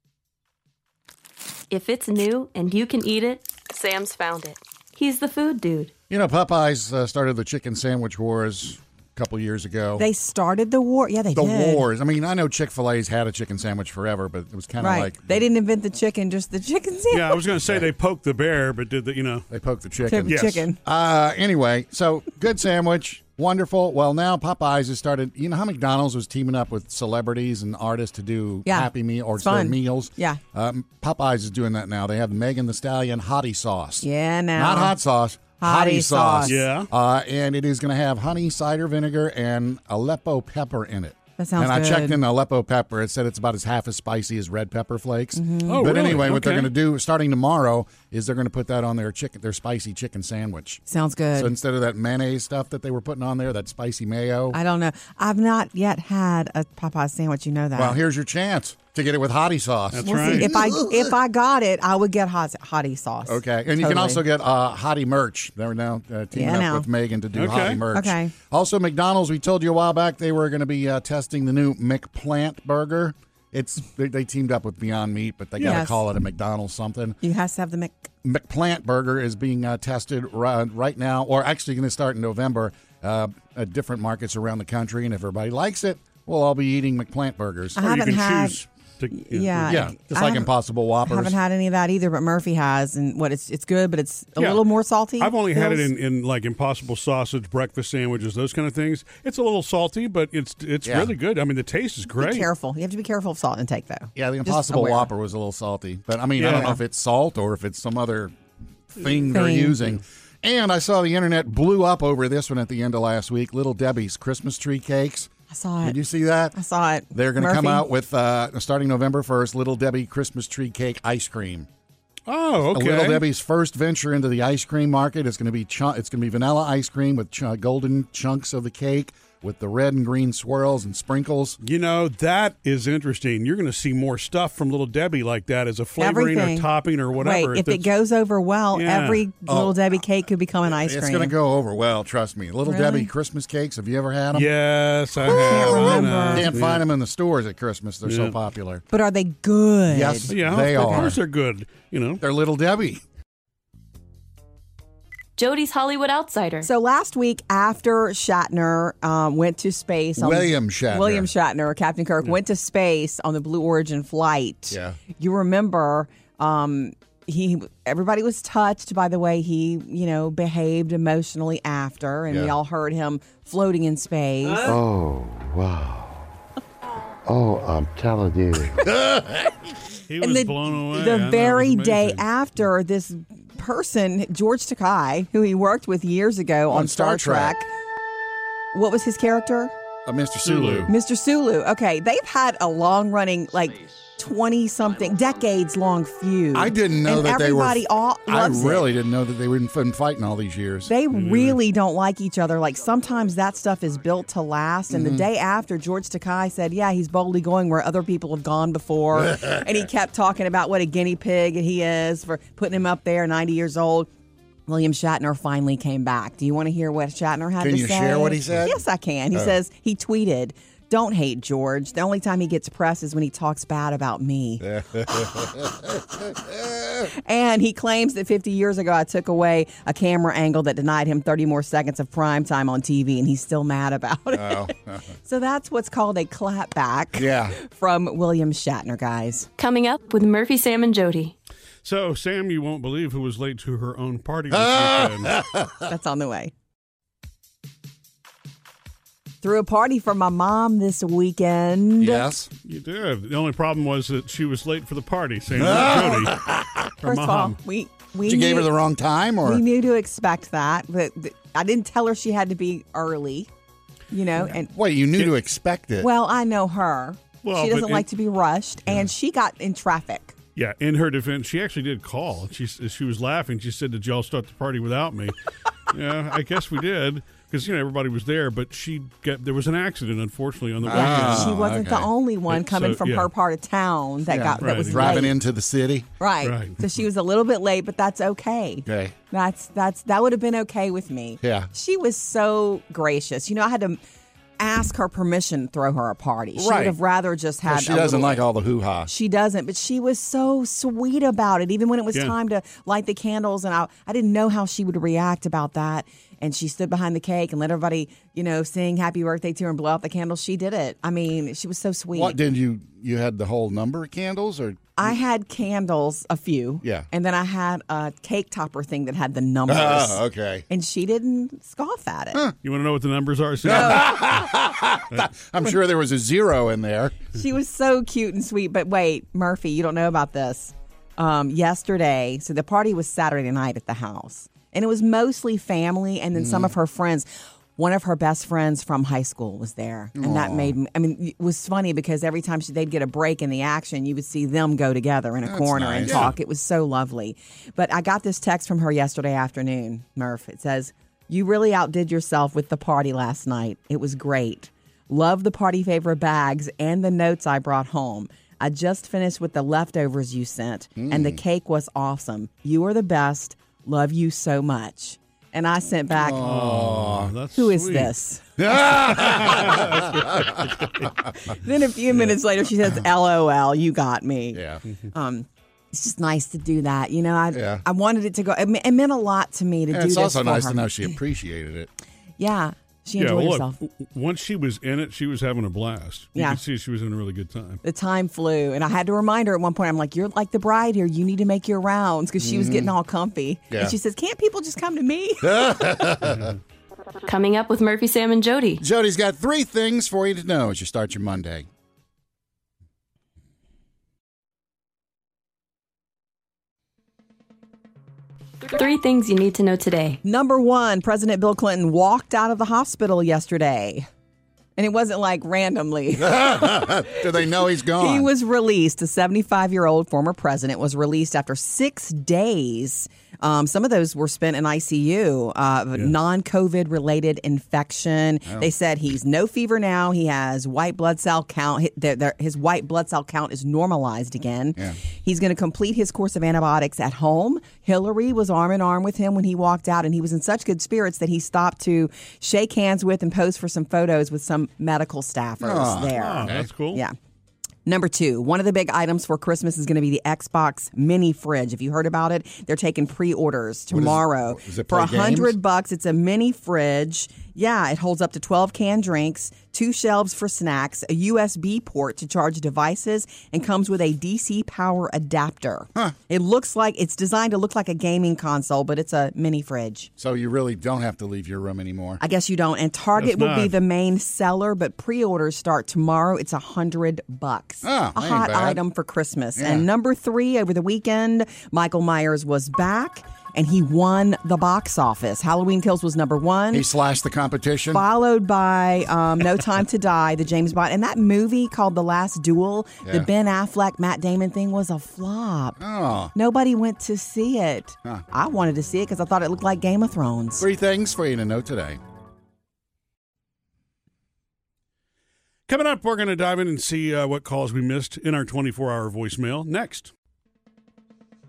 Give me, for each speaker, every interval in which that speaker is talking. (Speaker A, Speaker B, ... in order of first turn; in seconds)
Speaker A: 1.7-5.9, 155.4-156.7, 239.6-241.3, 397.2-398.8, 408.6-410.2
Speaker B: 6.1-10.1, 11.3-15.4, 19.5-50.8, 51.3-54.6, 57.8-61.1, 63.2-77.2, 78.2-87.9, 89.7-91.3, 100.8-101.1, 104.2-108.3, 108.9-115.3, 115.8-116.6, 117.1-121.7, 122.7-131.6, 139.5-139.9, 140.7-144.5, 145.4-148.8, 149.9-151.2, 152.2-153.0, 160.2-161.3, 164.7-165.0, 172.3-172.5, 178.8-179.6, 186.7-187.6, 190.1-190.9, 196.5-200.9, 204.9-205.2, 209.2-209.6, 217.6-218.8, 224.6-227.1, 234.3-235.1, 237.2-237.6, 244.5-245.9, 252.0-252.5, 255.5-256.9, 258.2-259.6, 264.7-266.1, 280.8-282.1, 284.3-286.1, 288.9-289.1, 291.4-291.7, 296.6-296.9, 297.6-299.1, 312.1-315.1, 319.7-320.6, 323.6-327.2, 336.4-336.7, 340.1-340.7, 345.4-346.3, 361.0-361.4, 366.1-367.3, 368.6-371.3, 374.5-374.8, 377.5-377.8, 379.9-381.9, 392.4-392.9, 393.7-393.9, 395.4-396.5, 398.8-401.7, 416.1-418.3, 445.6-446.7, 453.9-455.6, 470.2-472.2, 477.8-478.8, 479.6-479.9, 486.7-488.0, 495.8-496.3, 500.6-502.0
Speaker C: 10.0-11.8, 14.8-17.4, 20.1-20.8, 28.6-30.4, 34.0-35.0, 35.6-36.6, 41.4-42.2, 45.3-45.9, 50.9-51.5, 54.5-58.0, 60.0-64.2, 66.3-66.9, 67.9-68.3, 75.6-76.0, 77.2-78.1, 87.8-88.6, 89.1-90.5, 91.0-95.9, 102.1-105.1, 109.3-109.8, 115.5-116.0, 116.5-117.8, 136.0-136.7, 137.2-141.3, 142.6-143.1, 145.2-146.5, 148.9-151.1, 156.6-174.8, 180.2-187.7, 188.7-189.7, 190.9-198.9, 200.9-214.1, 214.7-224.6, 227.1-239.5, 245.9-246.5, 249.4-252.3, 257.0-258.7, 259.4-263.5, 264.1-264.7, 266.0-270.3, 280.9-285.4, 286.2-294.0, 294.6-298.4, 299.1-312.4, 315.0-322.4, 323.7-324.1, 327.3-366.4, 367.5-368.9, 371.4-380.9, 382.4-383.8, 387.8-396.1, 410.2-414.1, 414.8-447.1, 447.9-470.1, 472.2-486.9, 487.9-495.8, 496.3-500.7
Speaker D: 17.1-19.5, 20.3-20.6, 36.4-36.9, 45.7-46.7, 59.9-60.5, 67.3-67.8, 87.8-89.9, 94.4-94.7, 95.2-102.5, 106.4-106.8, 122.3-123.2, 131.6-137.9, 138.7-139.3, 144.3-146.8, 148.0-148.3, 150.3-152.2, 180.1-182.2, 190.4-190.9, 201.1-201.6, 241.8-245.3, 252.6-256.4, 257.0-257.6, 267.4-268.1, 270.6-275.4, 275.9-281.5, 282.5-283.3, 284.6-285.2, 286.4-286.8, 322.6-324.2, 346.1-346.3, 366.4-368.1, 369.2-371.1, 383.2-387.8, 396.3-396.5, 446.1-447.0, 473.2-473.8, 505.7-510.1
Speaker E: 174.7-176.3, 177.2-178.9